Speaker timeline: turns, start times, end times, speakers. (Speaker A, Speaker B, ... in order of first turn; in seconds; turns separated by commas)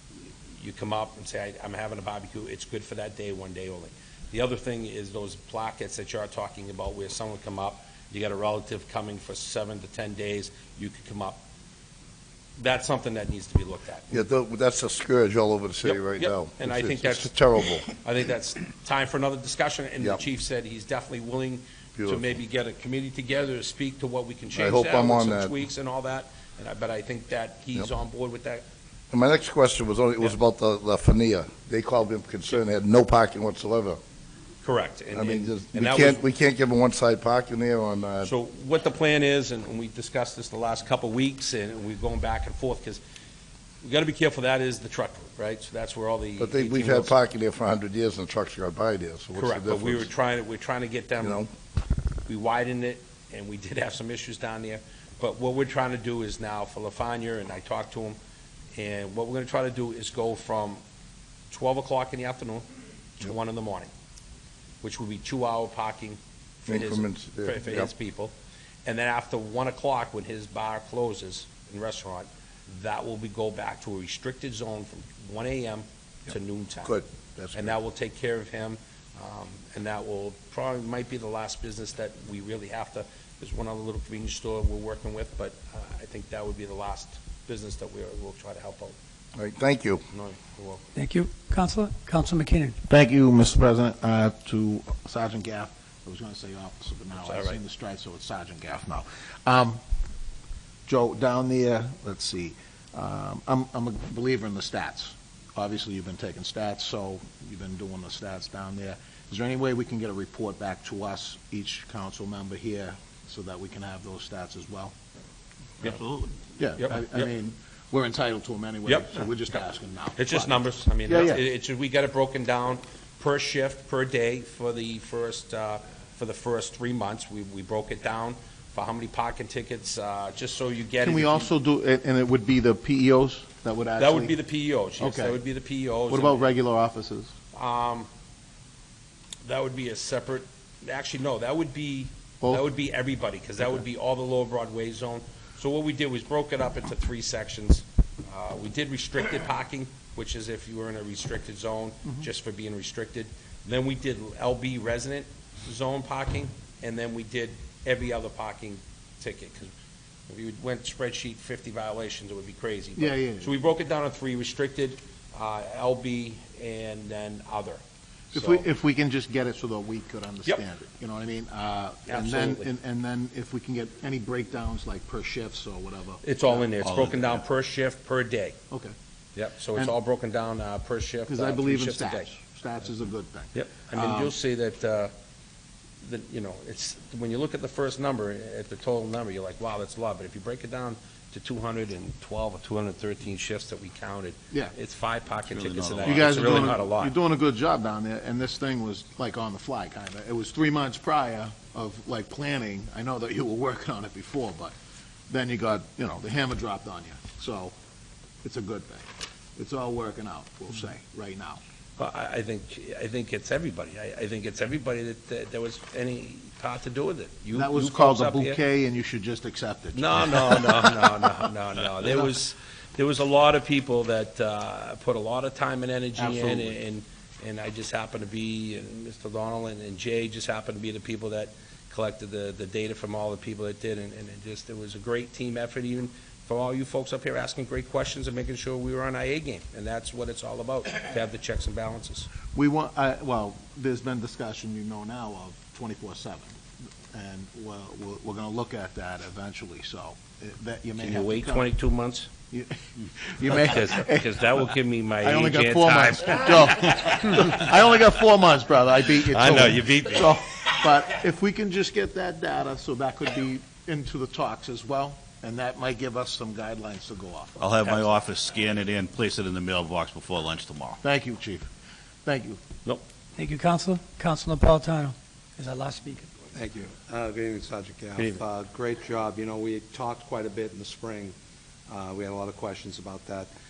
Speaker A: 0.5-11.4, Speaker A: 12.6-14.2, Speaker B: 14.1-17.9, Speaker A: 15.8-17.4, Speaker A: 17.9-28.6, Speaker B: 22.0-22.3, Speaker B: 24.5-25.6, Speaker B: 29.1-34.0, Speaker A: 34.6-36.2, Speaker B: 35.1-38.3, Speaker A: 38.2-43.0, Speaker A: 43.8-47.1, Speaker B: 46.4-50.1, Speaker A: 49.4-51.4, Speaker B: 51.2-51.5, Speaker A: 52.3-58.2, Speaker A: 58.8-60.8, Speaker A: 61.5-62.7, Speaker A: 63.2-63.9, Speaker A: 64.8-68.3, Speaker B: 66.7-67.9, Speaker A: 68.9-77.0, Speaker B: 76.8-77.8, Speaker A: 77.5-89.0, Speaker B: 89.4-90.0, Speaker A: 90.1-90.8, Speaker C: 91.0-92.8, Speaker D: 92.9-99.8, Speaker A: 97.2-97.6, Speaker D: 100.9-114.9, Speaker D: 116.6-121.4, Speaker A: 116.8-117.3, Speaker A: 118.9-119.2, Speaker A: 120.2-131.5, Speaker D: 131.0-134.3, Speaker A: 134.0-136.5, Speaker D: 135.0-135.4, Speaker D: 136.1-137.3, Speaker A: 137.5-138.1, Speaker A: 139.4-159.7, Speaker A: 160.3-168.7, Speaker D: 163.0-163.6, Speaker D: 168.3-176.7, Speaker A: 172.1-172.7, Speaker A: 176.2-178.6, Speaker E: 176.8-177.4, Speaker A: 179.3-182.3, Speaker D: 181.3-184.3, Speaker A: 183.5-185.1, Speaker A: 186.0-197.1, Speaker E: 195.5-196.8, Speaker D: 196.1-204.7, Speaker D: 205.3-207.7, Speaker D: 208.4-211.6, Speaker A: 212.0-218.6, Speaker D: 217.5-221.3, Speaker A: 219.9-242.3, Speaker D: 222.0-222.3, Speaker D: 226.2-226.8, Speaker D: 242.6-251.7, Speaker A: 251.0-252.3, Speaker D: 252.5-254.4, Speaker A: 253.4-257.5, Speaker D: 255.2-267.7, Speaker A: 259.2-260.3, Speaker E: 267.6-271.0, Speaker D: 271.0-271.7, Speaker D: 272.3-272.6, Speaker C: 273.4-276.3, Speaker F: 276.5-281.4, Speaker F: 281.9-283.5